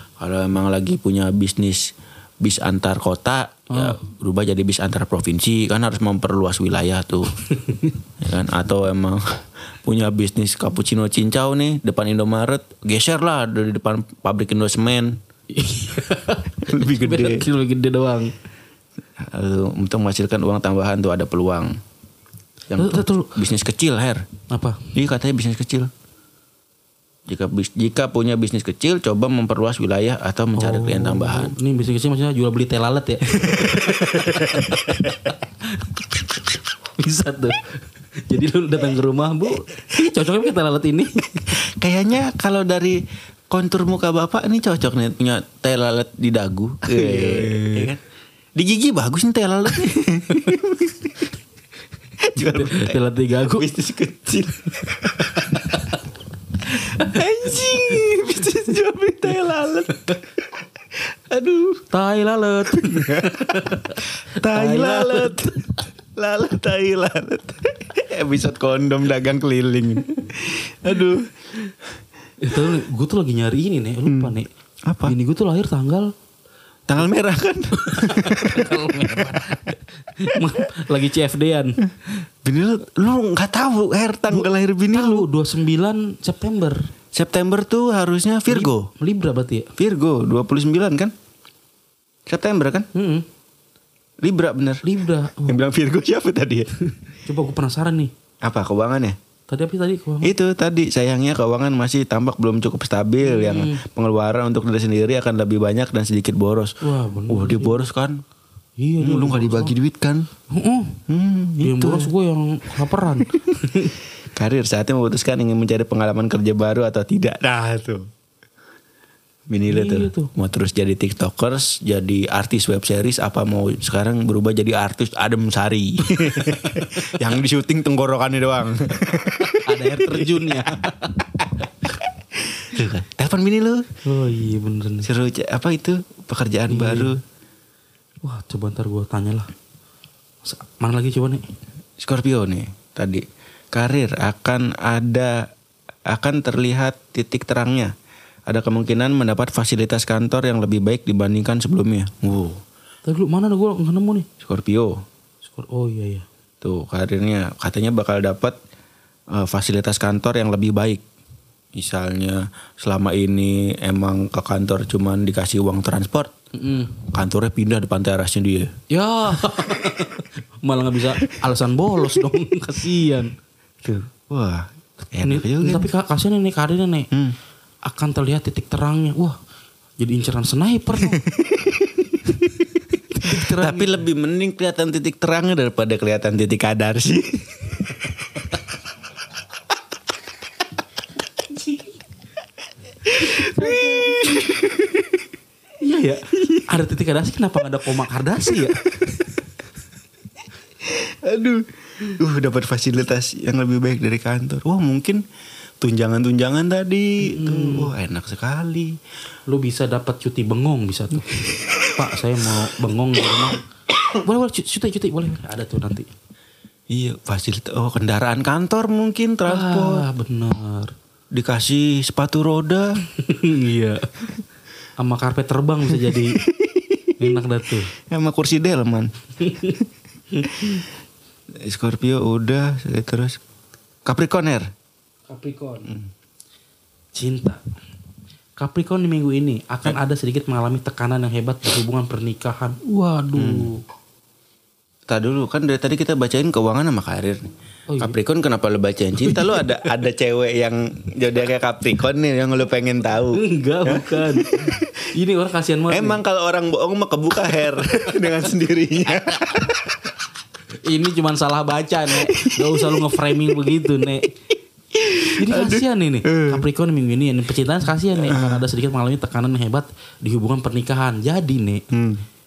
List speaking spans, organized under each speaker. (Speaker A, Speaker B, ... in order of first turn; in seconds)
Speaker A: 0.2-7.3, 8.2-15.2, 16.6-17.4, 19.2-21.8, 22.7-24.3, 24.9-25.9, 27.3-31.5, 33.5-35.1, 41.5-48.0, 48.5-51.2, 52.2-53.0, 53.5-55.6, 56.7-60.2, 61.1-61.9, 62.8-65.6, 66.2-71.3, 74.0-74.3, 74.9-75.1, 76.9-79.4, 82.4-85.3, 87.1-88.9, 89.8-91.1, 92.3-92.9, 94.2-94.8, 95.4-96.7, 98.4-99.2, 100.2-106.7, 107.3-108.2, 109.0-110.3, 111.1-112.1, 114.3-118.1, 119.5-130.7, 132.5-133.9, 135.0-137.2, 142.0-145.5, 146.1-147.9, 148.5-152.6, 154.4-155.0, 156.6-158.6, 159.3-161.0, 161.7-166.3, 167.1-168.7, 173.8-175.9, 181.1-182.1, 183.2-188.1, 193.0-195.2, 196.4-196.7, 200.8-205.2, 205.8-209.0, 216.9-220.1, 221.3-223.0, 225.9-227.4, 227.9-229.1, 230.5-230.8, 231.6-233.4, 234.1-234.7, 243.3-243.7, 245.1-247.5, 248.0-254.9, 255.9-260.0, 262.1-263.1, 264.9-266.6, 268.1-268.6, 271.9-272.2
Speaker B: 3.7-4.0, 7.6-7.9, 15.5-18.3, 22.8-23.4, 24.5-24.9, 30.6-36.2, 37.0-37.7, 38.3-41.6, 46.9-47.9, 52.3-53.7, 55.3-56.0, 56.7-57.2, 61.9-65.8, 72.4-74.5, 75.0-76.1, 77.7-81.8, 84.3-86.9, 88.5-89.7, 92.9-93.2, 94.8-95.6, 97.2-98.1, 99.5-100.3, 103.2-103.8, 106.8-107.8, 108.8-109.7, 110.5-111.0, 111.6-114.0, 119.7-120.3, 126.6-126.9, 129.5-131.3, 134.0-135.1, 136.7-137.1, 138.2-139.5, 140.4-141.4, 153.1-154.3, 155.5-156.2, 166.5-167.0, 168.9-173.3, 175.2-177.1, 177.8-179.4, 180.0-181.2, 183.1-183.9, 193.3-194.4, 195.8-198.8, 207.2-207.9, 209.5-216.1, 219.4-220.9, 223.2-224.3, 225.0-226.4, 227.2-227.9, 229.4-229.8, 230.3-230.8, 235.3-235.9, 237.1-237.6, 238.6-243.8, 247.9-248.2, 249.3-249.7, 253.3-256.2, 260.8-264.3, 265.3-271.8